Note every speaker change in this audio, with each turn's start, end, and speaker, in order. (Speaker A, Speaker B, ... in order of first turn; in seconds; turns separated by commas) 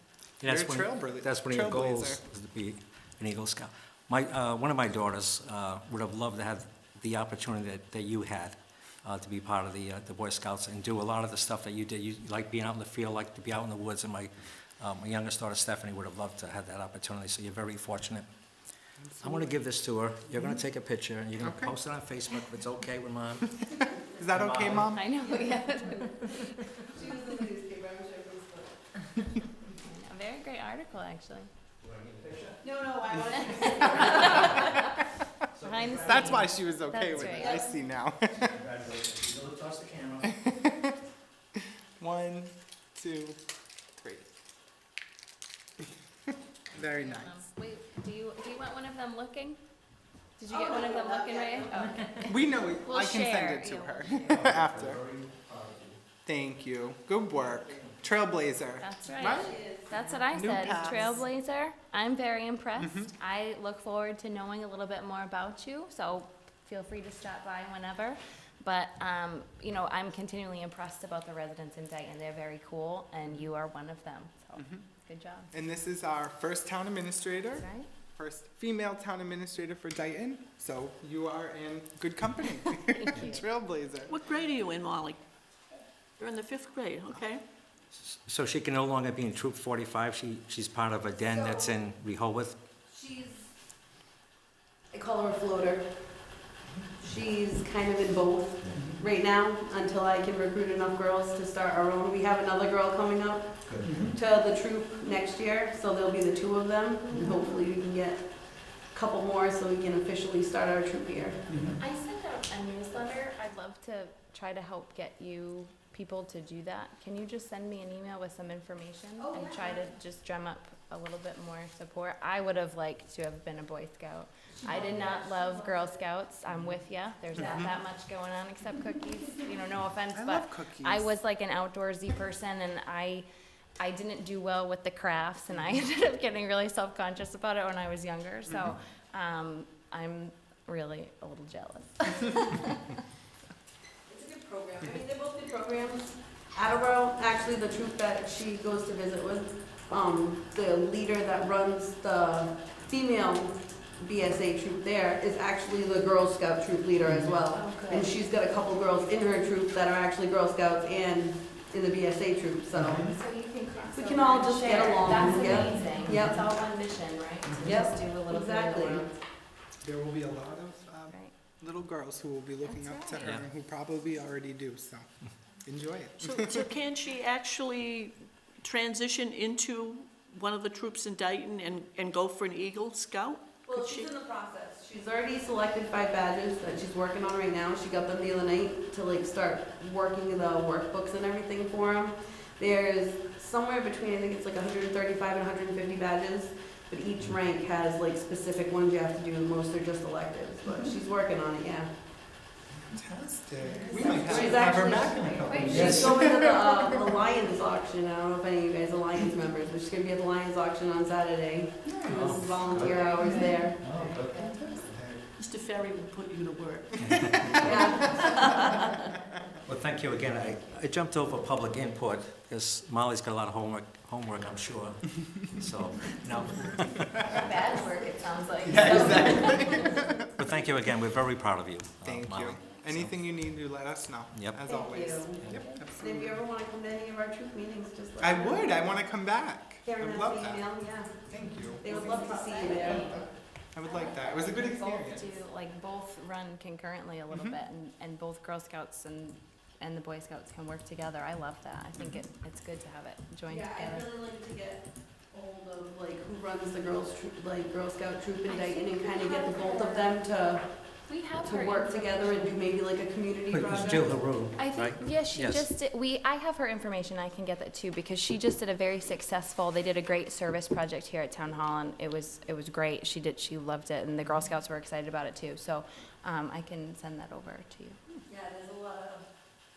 Speaker A: 0.4-18.2, Speaker B: 0.4-2.2, Speaker B: 19.0-19.5, Speaker A: 19.2-25.0, Speaker B: 21.4-21.7, Speaker B: 24.1-25.2, Speaker C: 24.9-26.4, Speaker D: 25.2-28.8, Speaker C: 29.7-31.5, Speaker A: 31.8-32.8, Speaker D: 32.6-34.8, Speaker C: 33.4-34.9, Speaker A: 35.5-37.6, Speaker C: 35.6-37.7, Speaker B: 36.0-38.6, Speaker D: 37.3-37.6, Speaker A: 38.3-40.3, Speaker B: 40.5-40.8, Speaker B: 42.0-43.4, Speaker B: 44.0-44.3, Speaker B: 46.7-47.5, Speaker C: 46.7-49.6, Speaker C: 50.4-54.4, Speaker D: 50.5-52.3, Speaker B: 52.1-55.0, Speaker A: 54.1-56.0, Speaker B: 56.2-59.5, Speaker A: 57.3-58.0, Speaker C: 58.8-75.5, Speaker D: 59.2-60.0, Speaker B: 60.3-61.2, Speaker B: 62.8-63.1, Speaker B: 74.6-74.8, Speaker B: 75.5-84.1, Speaker C: 77.5-77.9, Speaker C: 82.9-83.4, Speaker E: 84.1-85.2, Speaker E: 86.2-87.4, Speaker A: 87.9-92.6, Speaker D: 91.3-91.7, Speaker D: 92.9-93.5, Speaker D: 94.9-95.9, Speaker D: 97.0-111.7, Speaker B: 98.7-99.0, Speaker A: 103.7-104.1, Speaker B: 103.8-104.1, Speaker C: 107.0-107.6, Speaker B: 111.5-111.8, Speaker C: 111.8-133.2, Speaker D: 119.2-119.9, Speaker D: 124.5-126.0, Speaker B: 127.3-127.8, Speaker D: 127.4-127.6, Speaker B: 130.1-131.1, Speaker C: 133.8-143.0, Speaker D: 144.1-163.1, Speaker C: 157.4-158.1, Speaker B: 162.7-163.2, Speaker C: 163.0-169.2, Speaker D: 163.9-166.4, Speaker B: 165.1-166.4, Speaker B: 167.4-167.8, Speaker D: 167.6-169.1, Speaker B: 169.8-176.7, Speaker C: 172.7-173.3, Speaker E: 176.2-184.1, Speaker D: 183.7-201.9, Speaker B: 202.8-206.6, Speaker C: 203.7-206.6, Speaker D: 203.8-213.9, Speaker A: 205.6-206.1, Speaker B: 211.8-215.2, Speaker A: 212.0-213.2, Speaker C: 212.8-214.6, Speaker A: 213.8-214.6, Speaker E: 215.4-218.8, Speaker A: 217.0-217.8, Speaker D: 217.6-218.8, Speaker A: 219.7-227.6, Speaker C: 220.4-220.8, Speaker C: 227.2-230.5, Speaker B: 228.6-230.3, Speaker A: 228.9-229.2, Speaker A: 230.4-233.2, Speaker B: 232.0-236.4, Speaker D: 234.6-238.9, Speaker A: 235.4-235.6, Speaker C: 235.5-235.8, Speaker B: 238.2-242.0, Speaker D: 239.8-241.3, Speaker D: 241.8-243.2, Speaker C: 241.8-243.2, Speaker B: 242.8-243.1, Speaker B: 243.7-245.4, Speaker C: 243.8-254.1, Speaker D: 253.5-264.2, Speaker C: 258.5-260.2, Speaker C: 261.1-262.6, Speaker A: 263.5-265.7, Speaker C: 264.6-278.0, Speaker D: 278.3-279.2